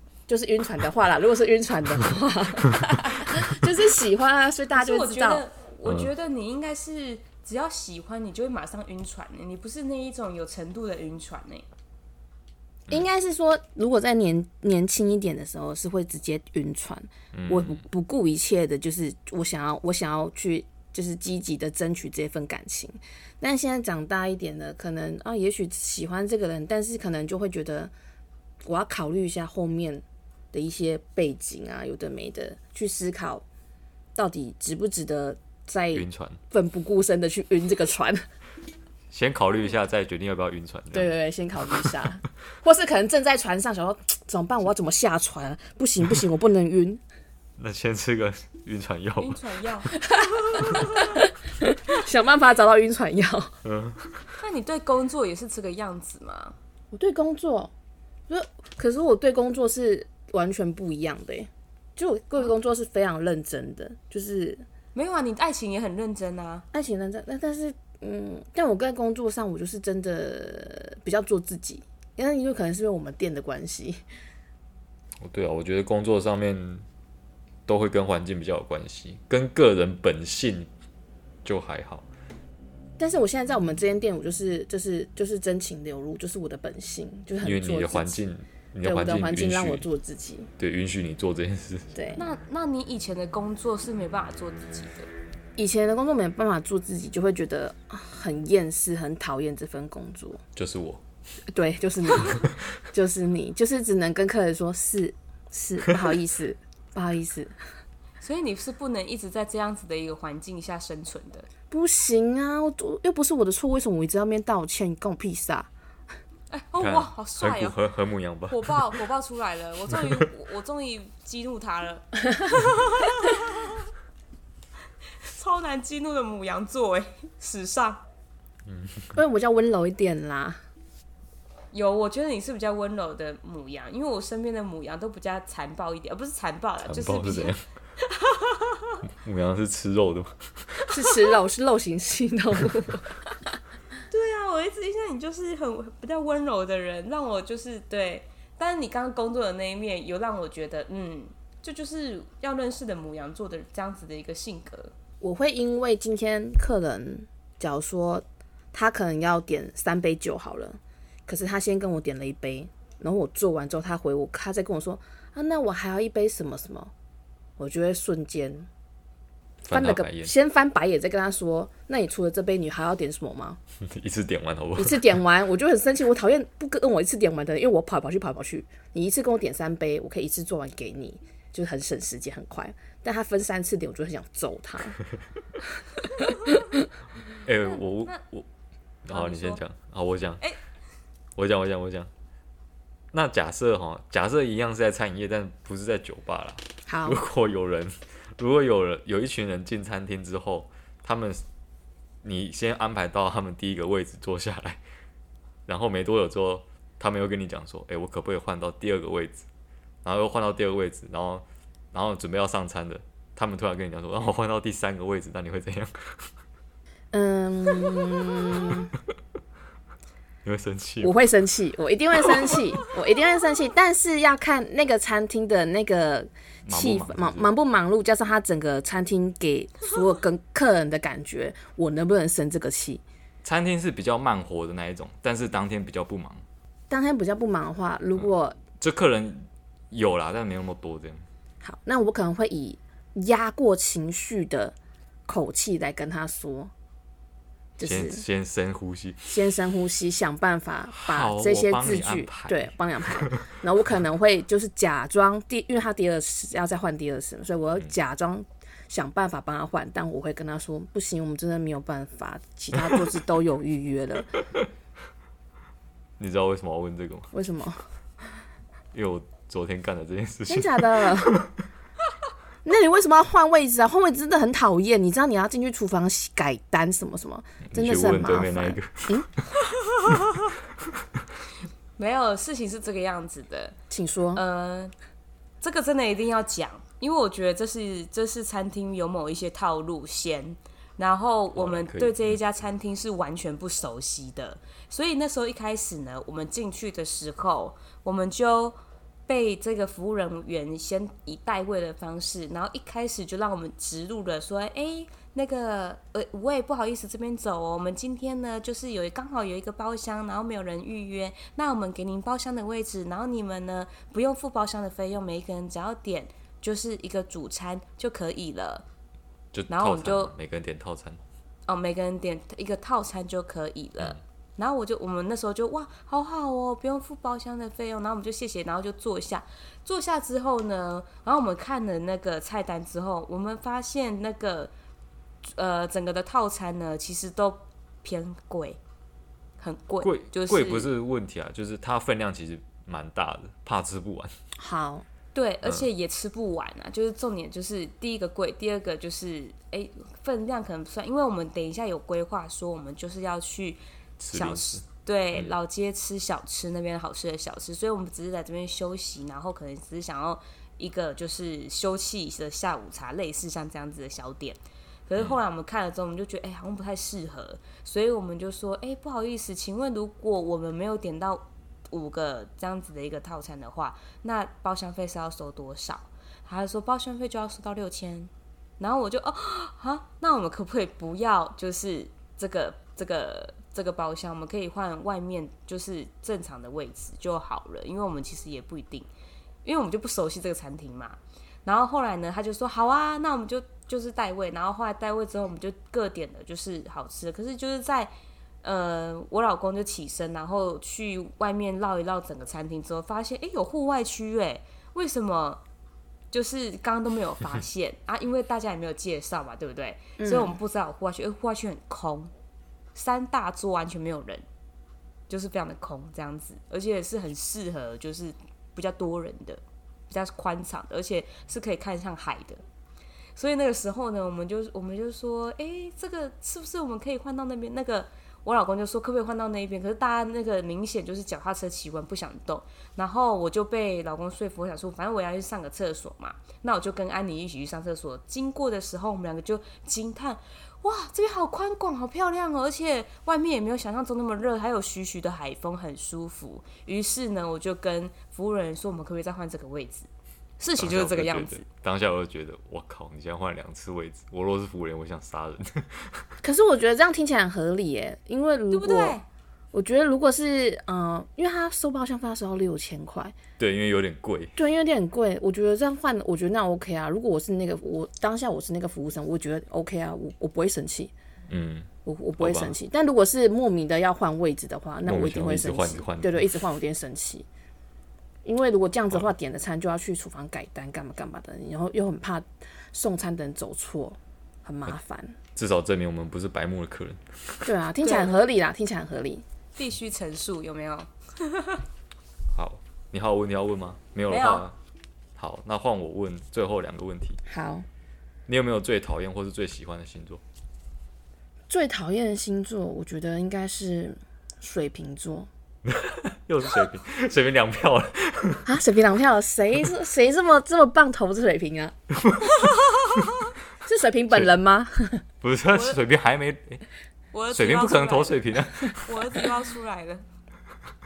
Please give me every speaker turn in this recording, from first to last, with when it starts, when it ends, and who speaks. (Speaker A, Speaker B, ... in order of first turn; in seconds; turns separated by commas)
Speaker A: 0.3-5.5, Speaker B: 4.8-11.7, Speaker A: 12.9-27.9, Speaker C: 17.3-17.8, Speaker A: 28.6-33.5, Speaker A: 34.2-38.2, Speaker C: 35.9-36.4, Speaker C: 39.1-41.1, Speaker A: 40.9-47.0, Speaker C: 47.6-49.4, Speaker B: 49.2-50.0, Speaker A: 50.1-53.6, Speaker B: 50.5-51.1, Speaker C: 53.6-54.1, Speaker B: 54.4-56.5, Speaker A: 56.9-57.7, Speaker A: 58.3-64.7, Speaker B: 64.9-66.7, Speaker A: 66.7-74.0, Speaker C: 75.2-76.8, Speaker C: 77.7-80.7, Speaker C: 81.5-82.1, Speaker A: 83.0-88.2, Speaker C: 87.4-89.9, Speaker A: 88.8-90.5, Speaker C: 90.6-91.9, Speaker A: 91.9-92.2, Speaker B: 92.2-95.1, Speaker A: 95.6-100.4, Speaker C: 100.6-101.0, Speaker A: 101.5-107.5, Speaker B: 108.2-111.5, Speaker A: 111.7-115.7, Speaker B: 116.5-117.8, Speaker C: 116.8-118.8, Speaker B: 118.5-123.9, Speaker B: 125.2-128.0, Speaker C: 128.7-129.2, Speaker A: 129.2-130.6, Speaker B: 131.7-139.0, Speaker C: 136.9-137.6, Speaker C: 139.1-140.4, Speaker A: 140.9-143.3, Speaker B: 144.1-154.9, Speaker A: 155.2-166.9, Speaker A: 167.6-168.7, Speaker C: 169.7-170.3, Speaker A: 169.7-173.6, Speaker C: 173.8-175.2, Speaker A: 174.8-185.0, Speaker C: 187.4-188.5, Speaker C: 189.1-190.4, Speaker B: 189.1-189.6, Speaker C: 191.4-192.1, Speaker C: 193.1-201.4, Speaker A: 196.9-197.2, Speaker C: 202.2-204.8, Speaker C: 205.7-209.4, Speaker C: 210.0-215.9, Speaker A: 217.1-218.9, Speaker C: 220.4-221.1, Speaker A: 221.0-233.0, Speaker C: 226.7-227.5, Speaker C: 233.4-236.4, Speaker A: 236.9-238.6, Speaker C: 238.8-241.2, Speaker A: 241.6-244.8, Speaker A: 245.3-246.7, Speaker A: 247.8-248.3, Speaker C: 247.8-249.3, Speaker A: 249.3-264.3, Speaker C: 250.9-253.4, Speaker C: 266.2-267.3, Speaker A: 267.3-267.9, Speaker C: 268.9-271.6, Speaker A: 270.5-271.3, Speaker A: 272.6-279.3, Speaker C: 277.7-279.4, Speaker B: 282.0-283.8, Speaker A: 283.9-284.4, Speaker B: 284.4-284.9, Speaker B: 285.6-298.8, Speaker C: 291.5-292.4, Speaker B: 299.3-318.9, Speaker C: 319.5-321.2, Speaker B: 319.7-320.3, Speaker B: 321.7-334.7, Speaker B: 335.5-338.8, Speaker B: 339.6-340.9, Speaker C: 340.0-344.3, Speaker A: 344.6-345.1, Speaker B: 345.3-353.8, Speaker C: 345.6-345.9, Speaker C: 354.2-355.6, Speaker B: 354.3-389.1, Speaker B: 389.6-405.6, Speaker B: 406.3-412.3, Speaker A: 410.2-410.6, Speaker B: 412.9-414.4, Speaker B: 415.3-422.6, Speaker B: 423.4-450.1, Speaker B: 450.6-451.6, Speaker C: 450.8-456.2, Speaker A: 456.4-459.2, Speaker B: 458.7-459.2, Speaker A: 459.7-463.4, Speaker C: 463.6-464.6, Speaker A: 464.6-471.1, Speaker C: 471.5-472.8, Speaker A: 472.1-477.5, Speaker C: 475.1-476.5, Speaker A: 478.4-485.4, Speaker C: 485.6-487.7, Speaker A: 487.6-489.4, Speaker B: 488.0-488.4, Speaker B: 489.8-491.9, Speaker C: 492.5-494.8, Speaker B: 494.3-494.7, Speaker C: 495.4-497.4, Speaker A: 497.4-497.9, Speaker C: 498.5-500.4, Speaker A: 501.7-505.5, Speaker C: 505.9-508.6, Speaker A: 508.7-511.9, Speaker A: 513.8-515.2, Speaker C: 515.4-516.8, Speaker B: 515.7-516.0, Speaker B: 517.3-520.2, Speaker C: 517.5-519.4